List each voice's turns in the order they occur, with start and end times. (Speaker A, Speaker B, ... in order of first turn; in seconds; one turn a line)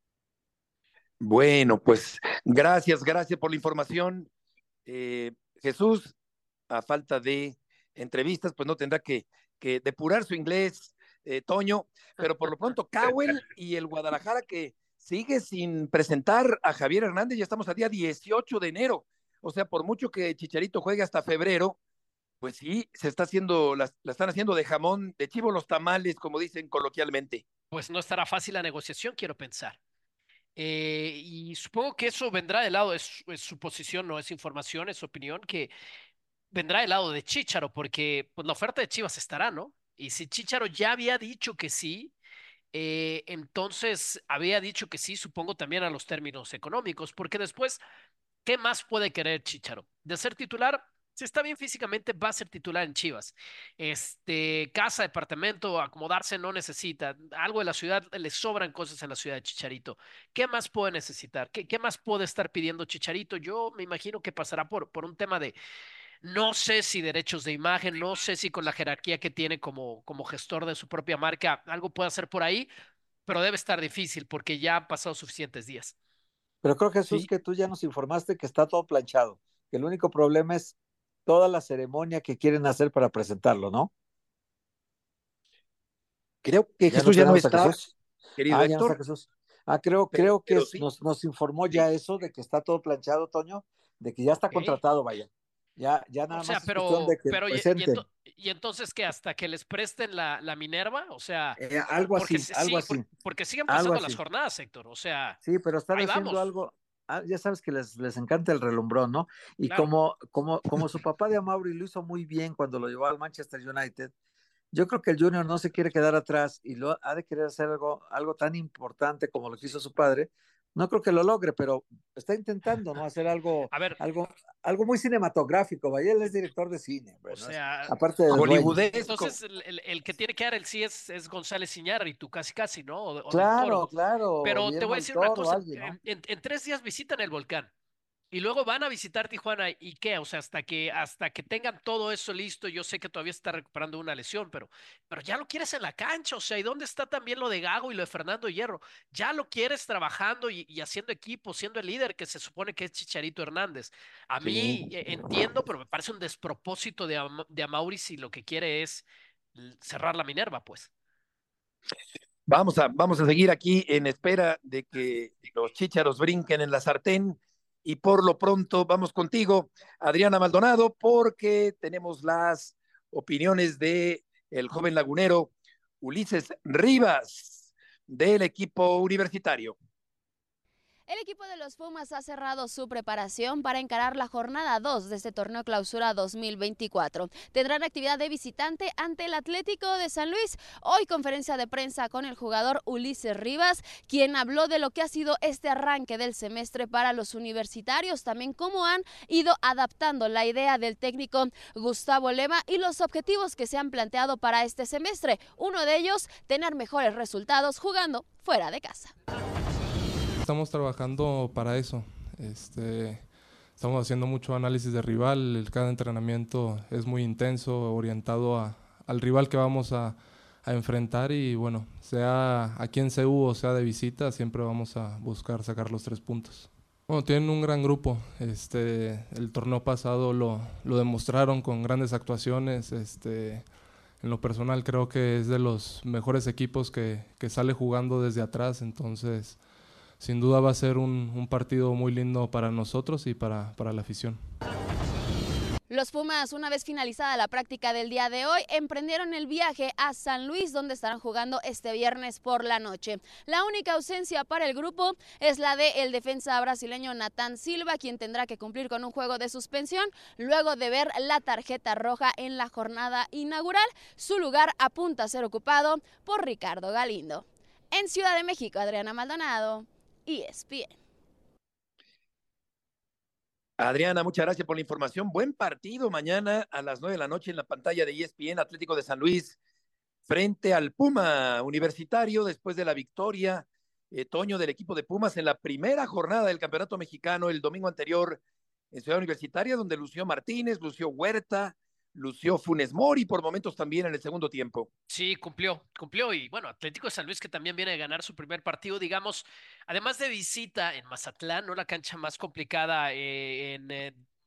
Speaker A: 1.2-4.3
Speaker A: 4.9-6.1
Speaker A: 6.7-21.8
Speaker A: 22.4-27.4
Speaker B: 27.7-29.8
Speaker B: 30.6-35.7
Speaker B: 36.5-42.1
Speaker B: 42.7-47.8
Speaker B: 48.5-65.5
Speaker B: 66.2-72.7
Speaker B: 73.3-75.9
Speaker C: 76.6-83.9
Speaker A: 86.4-87.8
Speaker C: 86.9-87.9
Speaker A: 88.4-88.9
Speaker C: 88.5-98.0
Speaker A: 90.1-90.8
Speaker B: 94.5-94.8
Speaker B: 96.3-101.6
Speaker C: 101.6-103.0
Speaker B: 102.1-105.4
Speaker C: 103.7-104.2
Speaker C: 105.4-114.1
Speaker B: 105.9-106.5
Speaker B: 109.6-109.9
Speaker C: 114.7-128.8
Speaker B: 123.7-124.0
Speaker B: 127.3-127.9
Speaker A: 128.3-129.3
Speaker B: 128.4-133.9
Speaker C: 133.3-135.9
Speaker B: 134.4-137.7
Speaker B: 138.3-160.9
Speaker A: 162.5-179.7
Speaker D: 181.1-209.1
Speaker E: 210.4-239.6
Speaker E: 240.2-244.5
Speaker D: 245.9-270.9
Speaker A: 273.8-279.6
Speaker A: 280.3-288.4
Speaker A: 288.9-294.9
Speaker B: 295.1-304.2